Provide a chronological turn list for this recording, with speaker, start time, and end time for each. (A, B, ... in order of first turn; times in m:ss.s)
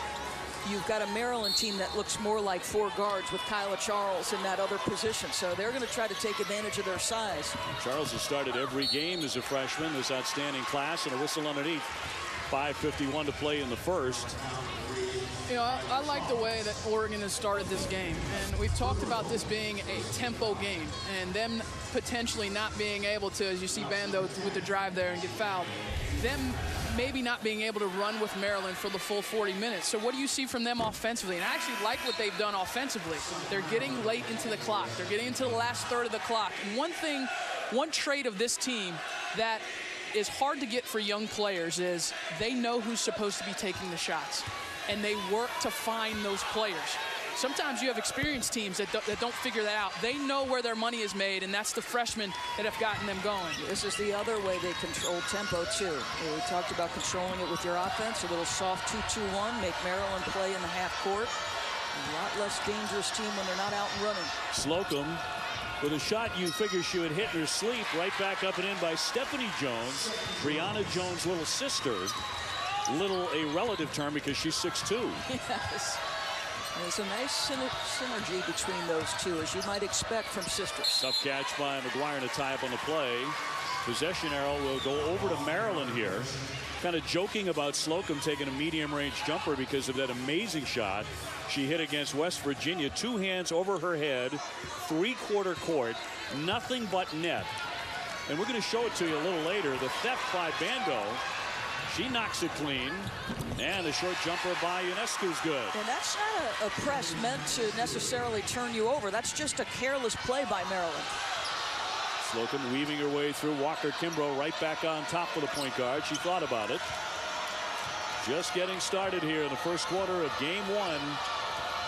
0:00.6-0:07.6 A
0:07.7-0:11.9 B
0:12.5-0:14.4 B
0:15.5-0:53.6 C
0:53.6-1:01.4 A
1:01.9-1:04.3 A
1:04.5-1:05.2 B
1:05.8-1:12.2 B
1:12.9-1:15.2 B
1:15.3-1:15.9 A
1:16.7-1:21.0 A
1:21.0-1:37.5 B
1:38.3-1:41.2 B
1:41.9-1:45.8 B
1:45.7-1:51.1 A
1:52.2-1:56.8 B
1:58.2-2:01.2 B